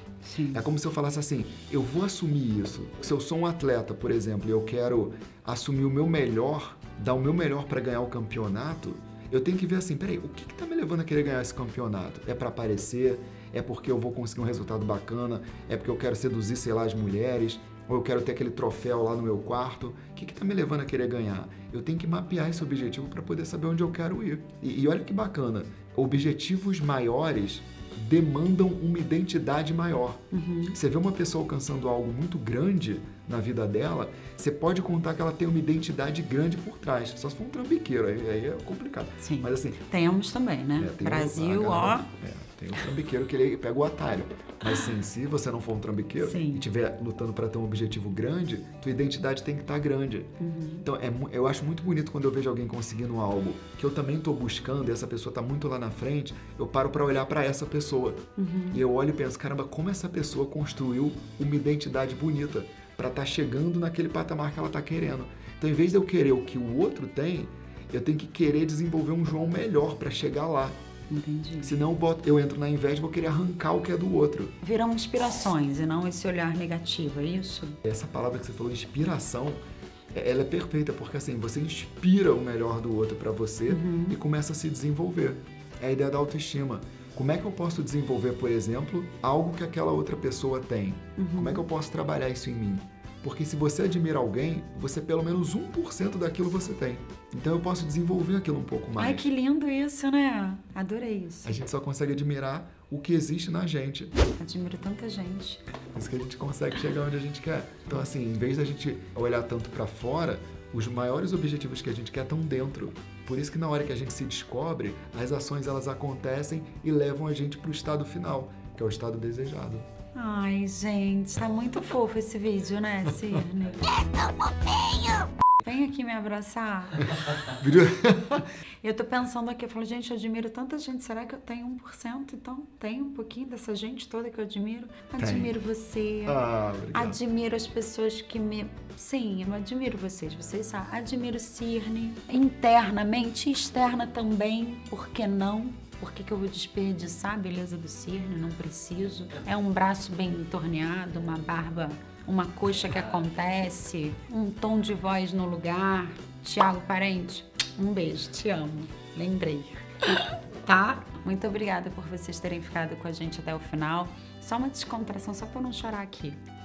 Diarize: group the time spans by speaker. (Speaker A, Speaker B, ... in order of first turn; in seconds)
Speaker A: 0.2-0.6, 30.3-30.8, 39.2-42.1, 46.2-46.6, 50.4-50.9, 58.4-58.8, 71.1-71.7, 74.6-77.8, 83.7-84.2, 91.2-91.6, 99.0-101.5, 104.3-105.6, 120.1-127.3, 128.8-166.4
Speaker B: 0.5-39.8, 40.8-50.3, 50.8-70.8, 71.6-74.5, 77.8-79.6, 80.1-99.3, 101.4-104.1, 105.9-119.8, 127.0-128.5, 135.2-135.6, 136.2-137.2